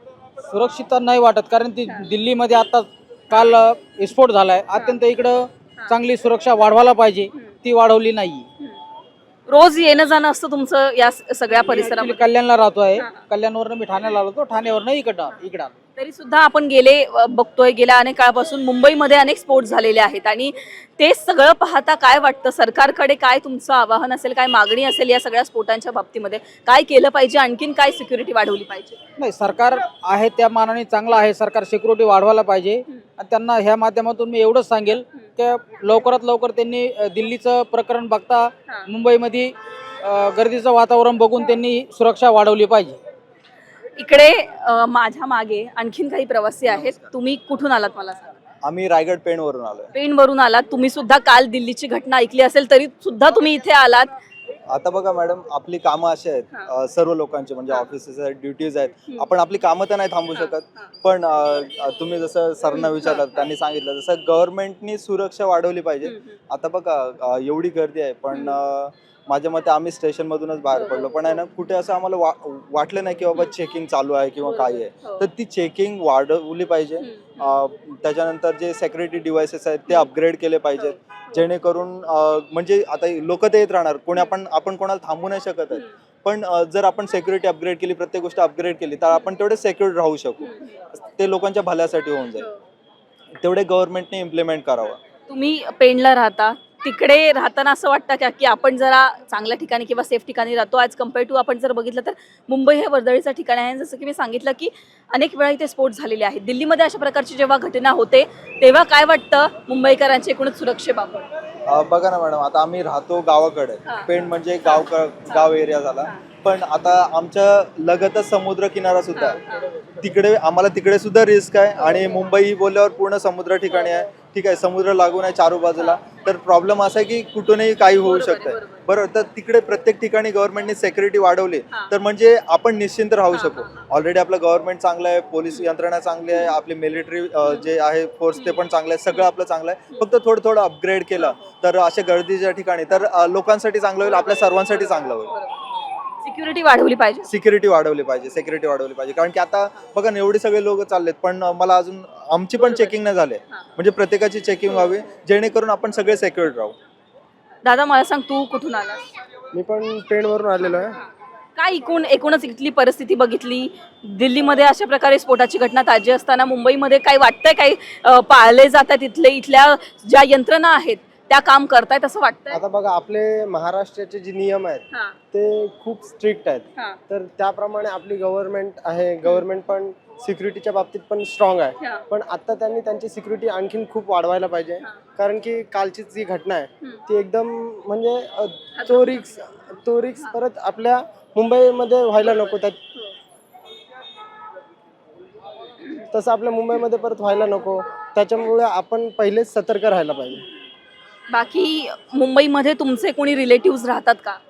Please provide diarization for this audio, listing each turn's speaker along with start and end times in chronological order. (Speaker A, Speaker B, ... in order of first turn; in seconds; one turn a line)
Speaker A: 0.5-8.4
Speaker B: 4.7-5.0
Speaker B: 7.3-7.6
Speaker B: 9.5-12.3
Speaker A: 11.5-15.8
Speaker B: 13.0-13.3
Speaker B: 16.0-29.0
Speaker A: 29.2-43.0
Speaker B: 44.0-48.3
Speaker C: 46.7-47.1
Speaker C: 48.6-49.9
Speaker B: 49.9-54.1
Speaker C: 54.7-92.5
Speaker B: 62.7-63.4
Speaker B: 66.0-66.4
Speaker B: 68.3-68.6
Speaker B: 70.7-71.4
Speaker B: 74.4-75.3
Speaker B: 77.0-77.6
Speaker B: 80.8-81.4
Speaker B: 90.4-90.7
Speaker C: 93.4-95.0
Speaker B: 95.3-111.3
Speaker C: 111.7-119.4
Speaker B: 113.8-116.2
Speaker B: 119.1-119.7
Speaker C: 120.0-145.3
Speaker B: 121.8-122.2
Speaker B: 123.7-124.0
Speaker B: 125.8-126.1
Speaker B: 127.9-128.9
Speaker B: 133.3-133.9
Speaker B: 138.3-139.3
Speaker B: 141.2-141.5
Speaker B: 144.0-145.7
Speaker B: 146.2-147.3
Speaker C: 147.3-156.8
Speaker B: 152.6-152.9
Speaker B: 154.7-155.1
Speaker B: 157.6-159.0
Speaker D: 159.5-160.9
Speaker B: 161.6-172.6
Speaker D: 172.5-192.8
Speaker B: 181.8-182.1
Speaker B: 188.8-189.2
Speaker D: 196.1-200.4
Speaker B: 201.3-204.4